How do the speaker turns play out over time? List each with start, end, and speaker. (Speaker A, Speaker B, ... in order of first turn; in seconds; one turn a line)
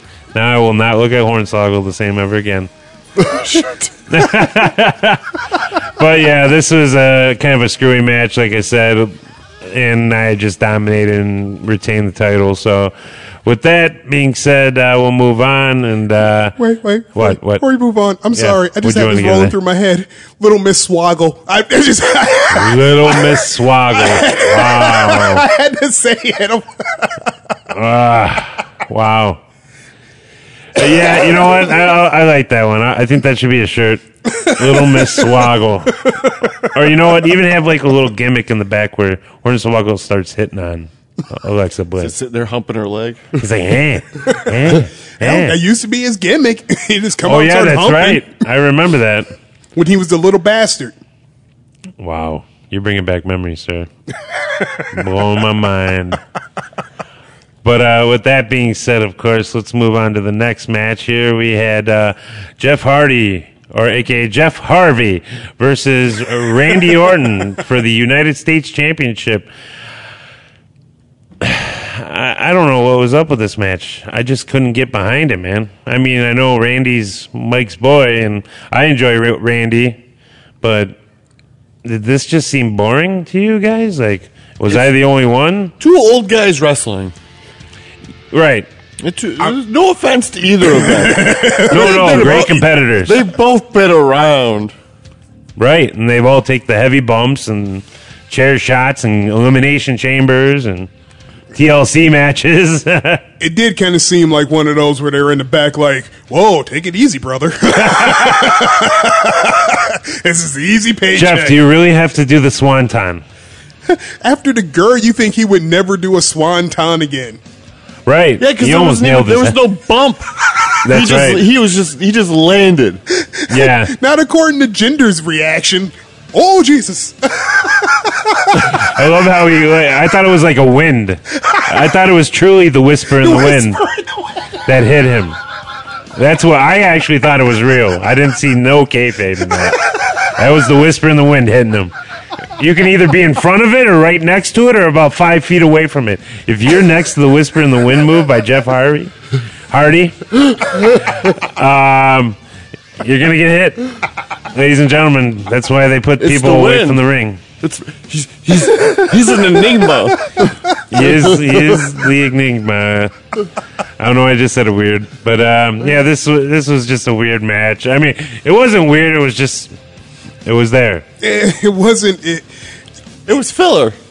Speaker A: 0.3-2.7
Speaker B: 3.4-3.8
Speaker A: 4.1-5.2
Speaker A: 5.8-12.9
Speaker A: 13.4-16.6
Speaker C: 16.6-23.4
Speaker A: 17.1-17.6
Speaker A: 18.4-19.6
Speaker A: 22.5-25.4
Speaker C: 23.9-27.3
Speaker A: 27.7-29.4
Speaker A: 30.8-36.1
Speaker C: 30.9-31.7
Speaker C: 34.6-35.3
Speaker C: 36.1-36.5
Speaker A: 36.7-42.1
Speaker B: 42.0-43.4
Speaker A: 43.4-45.6
Speaker C: 45.2-48.3
Speaker A: 47.2-49.3
Speaker C: 49.8-51.0
Speaker A: 52.0-53.9
Speaker A: 54.9-56.2
Speaker A: 57.6-69.5
Speaker A: 71.4-80.0
Speaker A: 80.6-81.0
Speaker A: 81.8-85.7
Speaker B: 85.8-87.1
Speaker A: 88.3-88.7
Speaker B: 89.0-94.7
Speaker C: 90.7-92.4
Speaker A: 91.7-93.2
Speaker A: 95.6-100.9
Speaker A: 101.5-103.2
Speaker C: 103.4-111.6
Speaker A: 111.1-113.2
Speaker C: 113.9-117.4
Speaker A: 118.1-119.6
Speaker B: 118.4-123.0
Speaker A: 120.8-121.4
Speaker C: 123.2-128.7
Speaker A: 123.5-123.9
Speaker A: 128.5-133.8
Speaker C: 133.2-134.6
Speaker A: 134.7-135.4
Speaker A: 136.2-141.9
Speaker A: 142.6-149.1
Speaker A: 149.7-150.2
Speaker A: 151.2-152.4
Speaker A: 153.0-153.8
Speaker A: 154.5-157.4
Speaker B: 156.2-157.0
Speaker B: 157.6-161.8
Speaker A: 160.9-163.1
Speaker A: 164.0-169.7
Speaker A: 170.4-171.1
Speaker C: 171.2-172.5
Speaker B: 173.3-174.0